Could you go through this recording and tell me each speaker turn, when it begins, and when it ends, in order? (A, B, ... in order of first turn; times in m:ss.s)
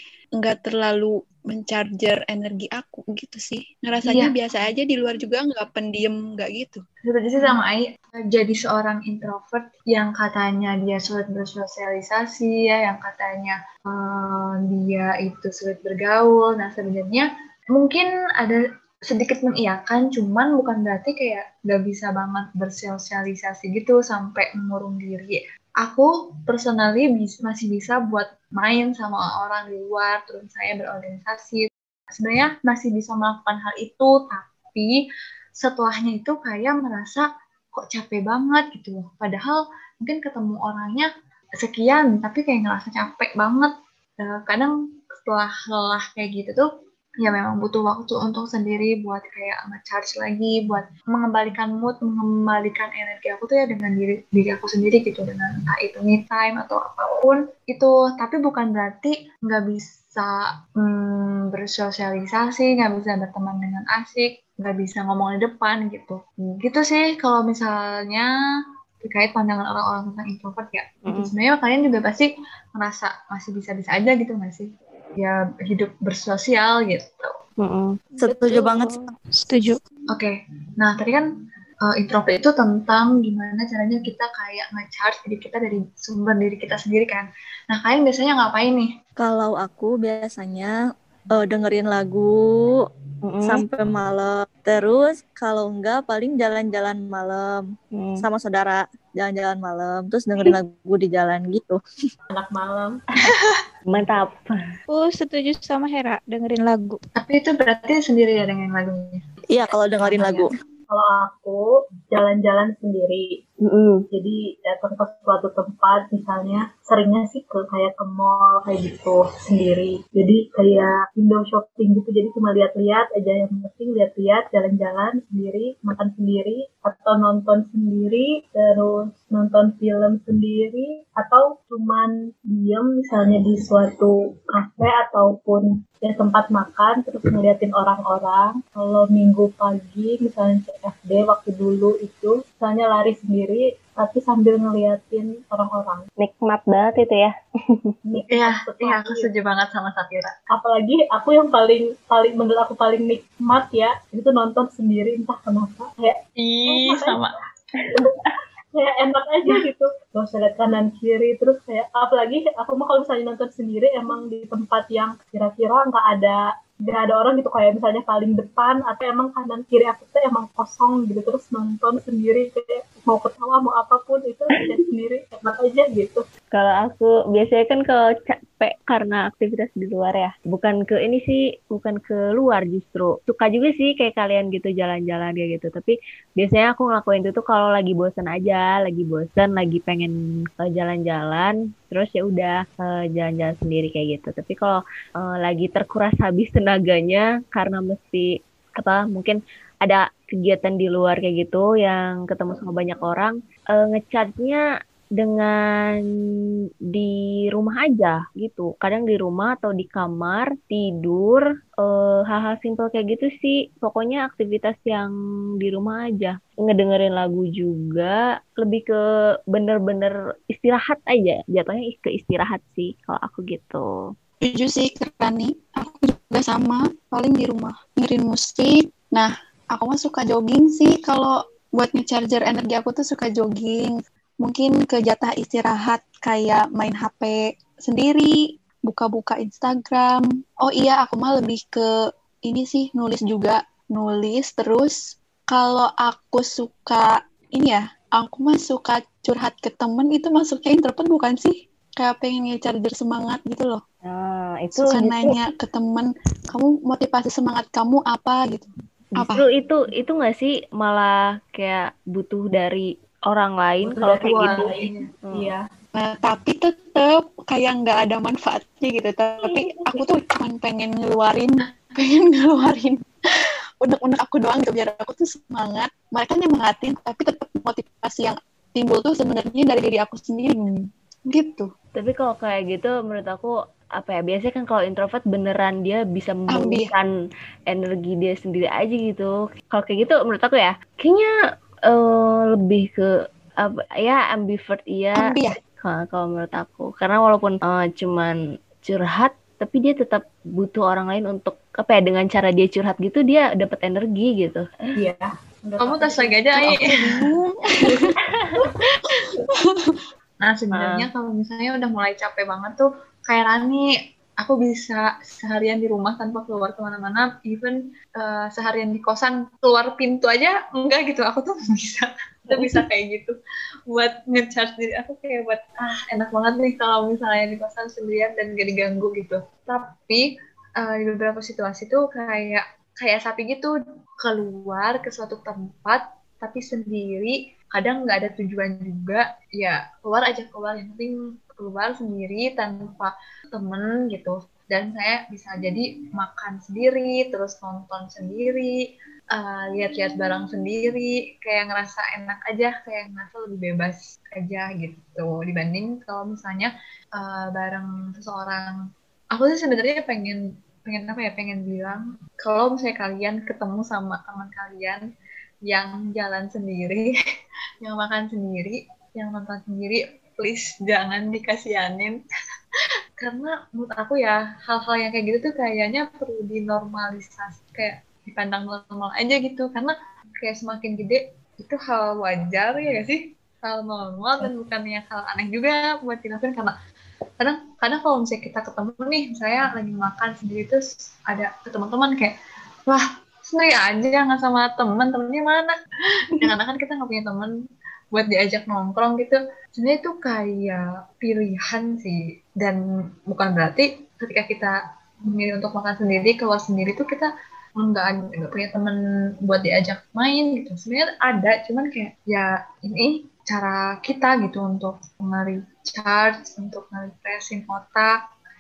0:00.4-0:06.8 A
0:04.0-0:04.3 B
0:07.0-0:34.9 B
0:35.6-0:41.1 B
0:41.6-0:46.7 B
0:47.2-1:08.3 B
1:09.0-1:17.3 B
1:17.6-1:19.0 C
1:18.2-1:19.0 D
1:19.4-1:19.8 E
1:20.1-1:21.3 B
1:21.9-1:28.9 B
1:29.2-1:30.7 D
1:31.3-1:32.3 D
1:33.3-1:33.6 C
1:33.4-1:37.6 D
1:37.9-1:38.2 C
1:38.2-1:41.8 D
1:42.3-1:42.9 F
1:43.9-1:44.6 C
1:44.9-1:47.0 E
1:47.2-1:49.2 B
1:49.5-1:50.5 D
1:50.0-1:50.5 B
1:50.9-1:51.6 F
1:52.1-1:53.4 F
1:53.6-1:54.0 C
1:54.1-2:26.0 F
2:26.2-2:27.9 C
2:28.1-2:29.3 F
2:28.3-2:30.3 B
2:30.5-2:37.2 F
2:36.4-2:37.3 B
2:38.7-2:56.2 F
2:56.5-3:18.3 C
3:18.8-3:24.6 C
3:25.2-3:26.0 C
3:26.9-3:39.0 C
3:39.5-3:43.9 C
3:44.4-3:58.3 A
3:58.9-4:01.9 A
4:02.5-4:05.0 A
4:05.5-4:13.8 A
4:14.0-4:15.4 C
4:14.8-4:19.4 A
4:19.2-4:25.5 C
4:23.8-4:25.6 F
4:24.2-4:25.1 B
4:25.9-4:33.0 A
4:33.8-4:40.7 A
4:41.3-4:41.7 A
4:42.0-4:47.1 C
4:46.5-4:46.9 A
4:47.7-4:51.3 C
4:51.9-4:53.1 C
4:53.6-4:55.3 C
4:55.2-4:55.6 A
4:55.8-5:04.7 C
5:05.0-5:06.8 F
5:05.8-5:07.2 B
5:06.8-5:08.1 A
5:09.1-5:09.9 A
5:10.4-5:13.9 B
5:10.7-5:11.1 C
5:14.4-5:23.4 B
5:23.9-5:30.2 B
5:30.8-5:48.7 B
5:49.3-5:58.8 B
5:59.3-6:05.0 B
6:05.7-6:07.1 B
6:07.8-6:12.2 B
6:13.2-6:26.7 B
6:27.4-6:32.4 B
6:32.9-6:35.8 B
6:36.4-6:37.5 B
6:38.1-6:44.8 B
6:45.3-6:58.1 B